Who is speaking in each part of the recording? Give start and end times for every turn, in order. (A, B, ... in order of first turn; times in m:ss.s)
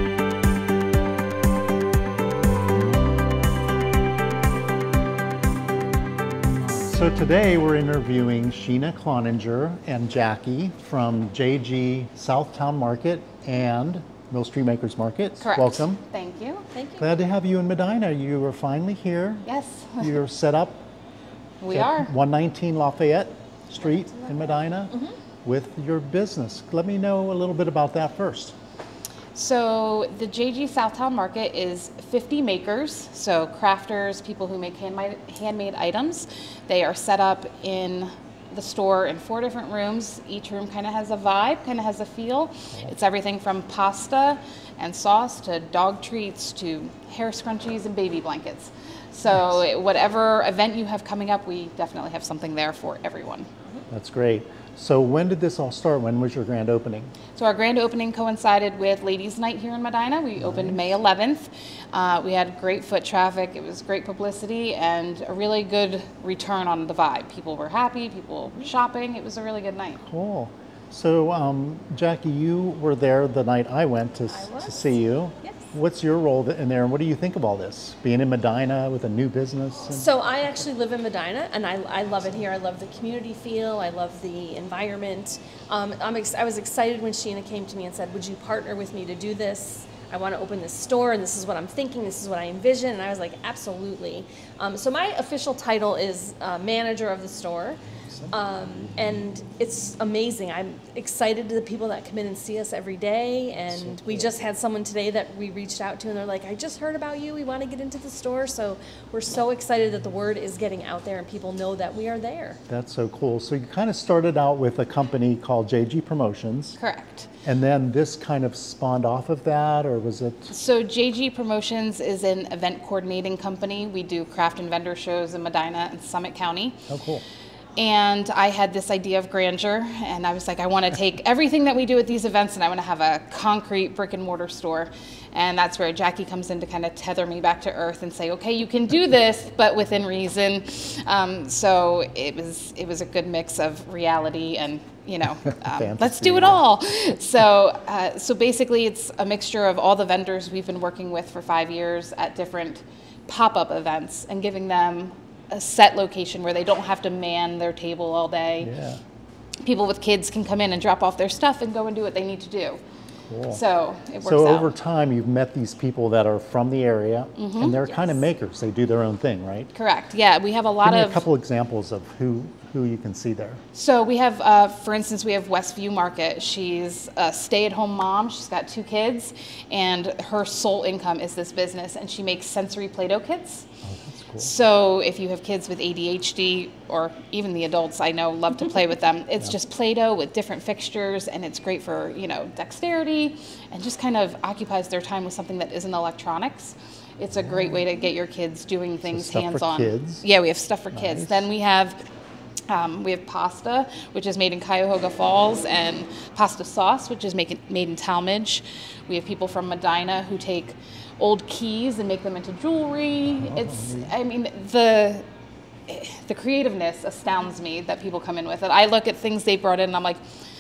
0:06.6-0:16.0 A
0:15.4-0:16.6 B
0:16.7-0:17.1 C
0:17.0-0:19.5 A
0:19.5-0:20.2 B
0:20.0-0:20.8 A
0:21.6-0:22.1 B
0:21.7-0:28.5 A
0:23.8-0:25.1 C
0:29.4-0:53.5 B
0:53.9-0:57.1 A
0:57.4-1:10.0 B
1:00.4-1:00.9 A
1:10.0-1:20.1 A
1:14.3-1:15.6 C
1:19.9-1:37.8 C
1:38.1-1:38.3 A
1:38.3-1:52.6 C
1:43.7-1:44.3 A
1:52.7-1:56.8 A
1:56.8-1:57.3 B
1:57.4-2:00.5 A
2:00.5-2:06.8 B
2:06.9-2:07.2 A
2:07.8-2:38.7 B
2:25.7-2:26.6 A
2:38.6-2:39.0 A
2:39.6-2:42.8 B
2:43.3-2:43.6 A
2:43.5-2:44.7 B
2:44.2-2:49.7 A
2:47.4-2:47.8 B
2:49.8-2:51.2 B
2:50.8-2:53.6 A
2:53.8-3:03.7 B
3:03.8-3:04.5 A
3:04.4-3:22.0 B
3:17.3-3:17.8 A
3:19.0-3:20.2 A
3:20.9-3:21.5 A
3:22.7-3:35.2 B
3:33.3-3:34.1 A
3:35.9-3:40.2 B